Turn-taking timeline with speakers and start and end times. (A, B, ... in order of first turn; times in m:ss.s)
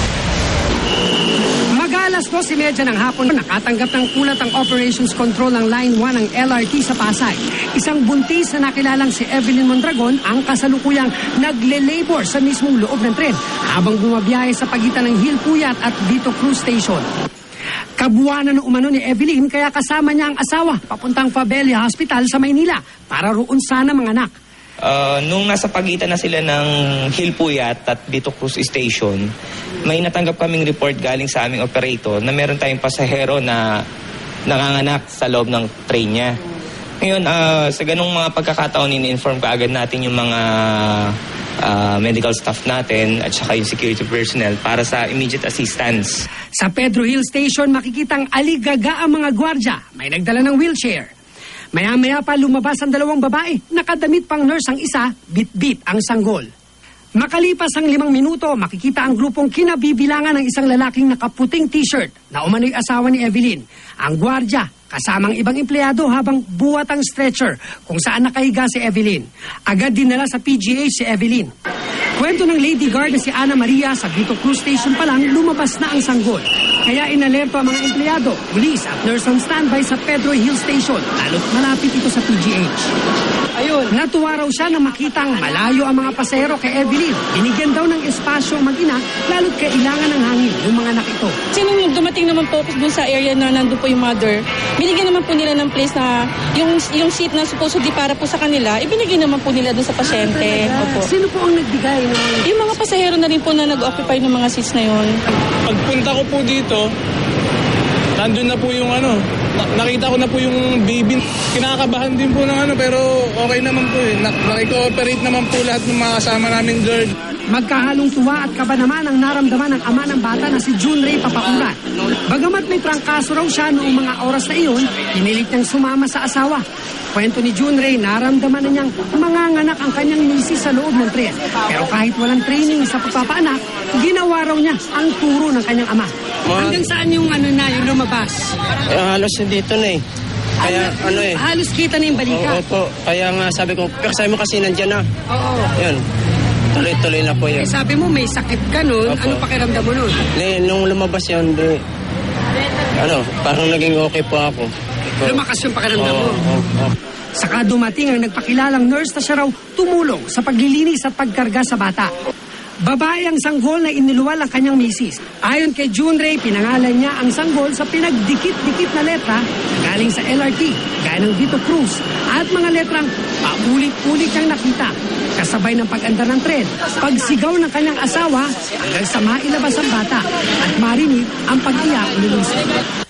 0:01.7-0:17.0 A
0:18.0-0:24.3 A
0:24.8-0:29.3 B
0:29.8-0:33.6 B
0:34.5-0:36.4 B
0:37.0-0:46.2 B
0:46.6-0:51.1 A
0:51.7-0:56.5 A
0:57.2-1:11.5 A
1:12.2-1:22.9 A
1:23.7-1:31.4 A
1:31.5-1:41.1 C
1:40.0-1:42.7 A
1:42.4-1:45.1 C
1:45.6-1:46.8 D
1:48.2-1:49.2 D
1:49.7-1:57.1 D
1:57.5-2:18.5 A
2:16.4-2:16.8 E
2:18.9-2:20.0 E
2:20.6-2:21.4 E
2:20.6-2:22.6 A
2:22.2-2:25.0 E
2:25.3-2:25.7 A
2:25.8-2:26.0 E
2:26.7-2:27.7 E
2:27.6-2:30.2 A
2:29.1-2:29.4 E
2:30.3-2:31.8 E
2:33.0-2:35.4 E
2:35.2-2:36.4 A
2:36.0-2:36.9 E
2:37.4-2:42.1 A
2:42.8-3:02.6 A